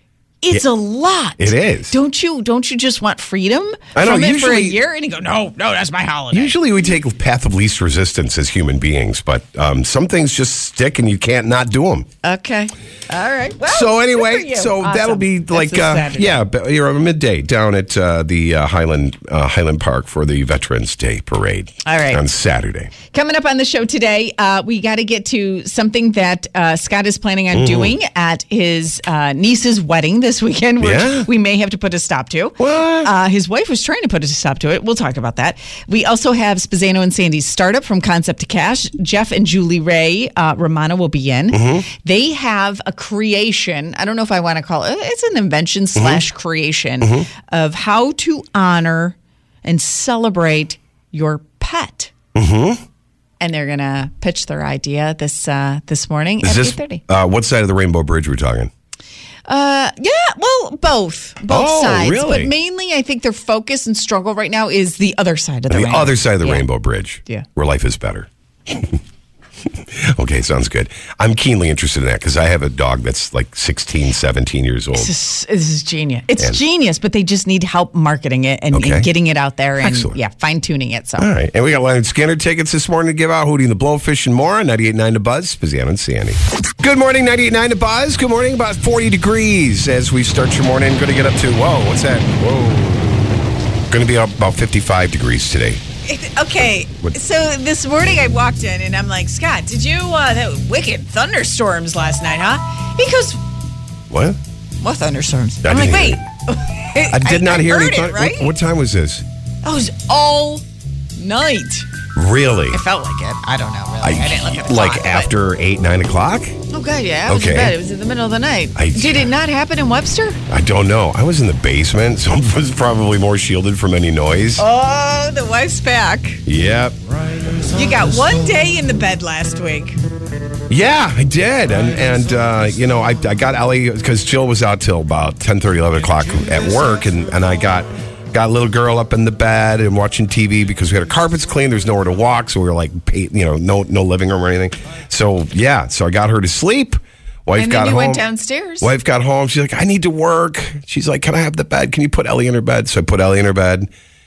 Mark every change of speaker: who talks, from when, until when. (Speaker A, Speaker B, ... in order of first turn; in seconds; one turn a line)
Speaker A: 0.4-6.6
Speaker B: 1.4-1.9
Speaker B: 4.0-4.8
Speaker B: 6.3-12.1
Speaker A: 12.2-16.4
Speaker B: 13.6-22.9
Speaker A: 21.9-22.2
Speaker A: 23.0-52.1
Speaker B: 27.5-27.9
Speaker B: 30.8-31.3
Speaker B: 32.6-33.1
Speaker B: 41.5-41.9
Speaker B: 46.0-46.2
Speaker B: 47.0-47.3
Speaker B: 52.3-52.8
Speaker A: 53.4-57.0
Speaker B: 56.4-58.7
Speaker A: 59.5-66.7
Speaker B: 61.5-62.5
Speaker B: 65.7-69.0
Speaker B: 69.9-75.1
Speaker A: 75.0-81.3
Speaker B: 78.7-79.1
Speaker B: 79.8-80.2
Speaker B: 81.2-95.8
Speaker A: 96.0-103.4
Speaker B: 104.1-104.4
Speaker A: 104.8-108.5
Speaker B: 105.6-106.2
Speaker B: 107.1-109.2
Speaker A: 109.6-110.6
Speaker A: 111.2-111.9
Speaker B: 112.2-112.8
Speaker A: 112.7-115.3
Speaker B: 114.0-116.6
Speaker A: 116.7-120.4
Speaker B: 117.3-117.8
Speaker B: 118.8-119.3
Speaker B: 120.5-124.6
Speaker A: 124.6-126.4
Speaker B: 126.5-127.0
Speaker A: 127.7-130.0
Speaker B: 130.7-148.2
Speaker A: 147.6-148.9
Speaker B: 148.8-153.9